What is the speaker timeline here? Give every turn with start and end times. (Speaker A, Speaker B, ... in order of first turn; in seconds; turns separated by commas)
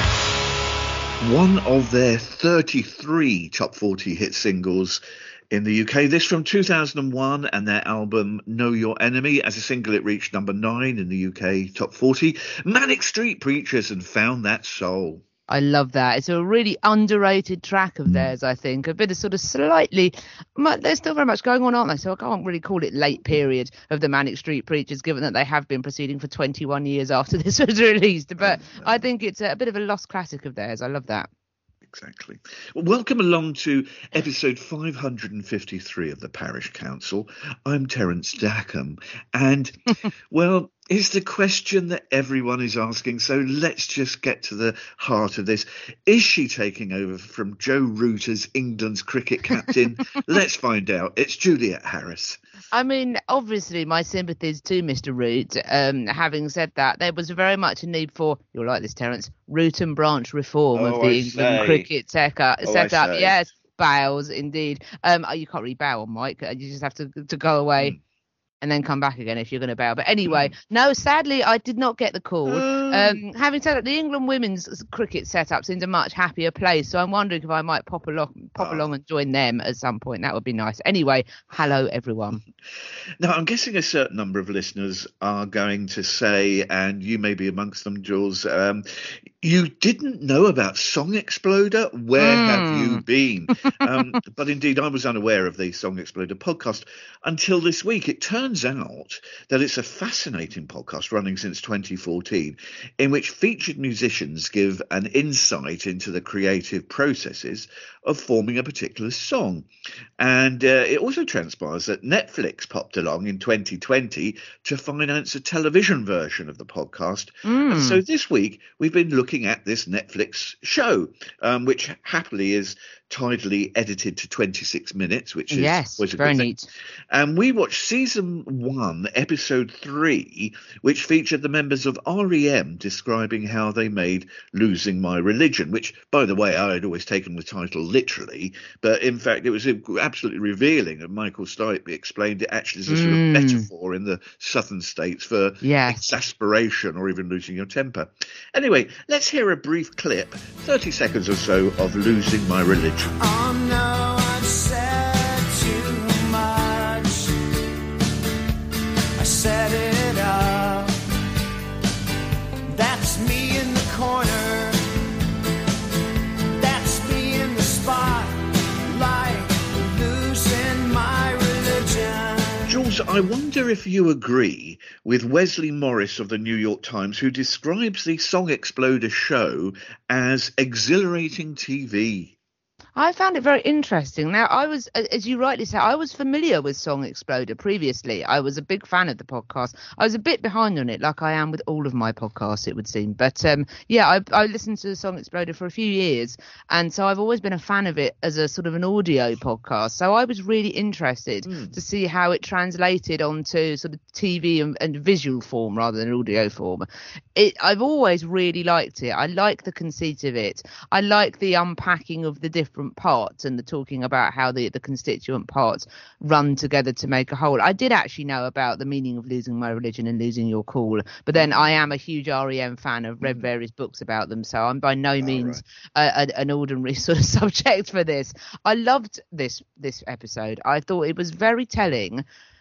Speaker A: 1.2-15.2, Speaker B: 15.5-31.3, Speaker A: 28.4-29.0, Speaker A: 31.8-52.4, Speaker B: 52.7-67.9, Speaker A: 60.7-61.9, Speaker A: 62.6-63.4, Speaker B: 68.6-82.4, Speaker A: 70.2-70.5, Speaker A: 72.5-73.2, Speaker A: 78.6-78.8, Speaker A: 83.2-126.5, Speaker B: 92.2-93.0, Speaker B: 117.4-118.0, Speaker B: 125.5-126.7, Speaker A: 127.1-153.1, Speaker B: 142.9-143.7, Speaker B: 145.6-146.0, Speaker C: 153.2-157.4, Speaker C: 159.2-160.9, Speaker C: 162.7-164.8, Speaker C: 166.6-172.8, Speaker A: 172.7-182.3, Speaker B: 182.9-232.2, Speaker A: 201.4-201.8, Speaker A: 221.3-221.7, Speaker A: 223.2-223.5, Speaker A: 225.2-225.6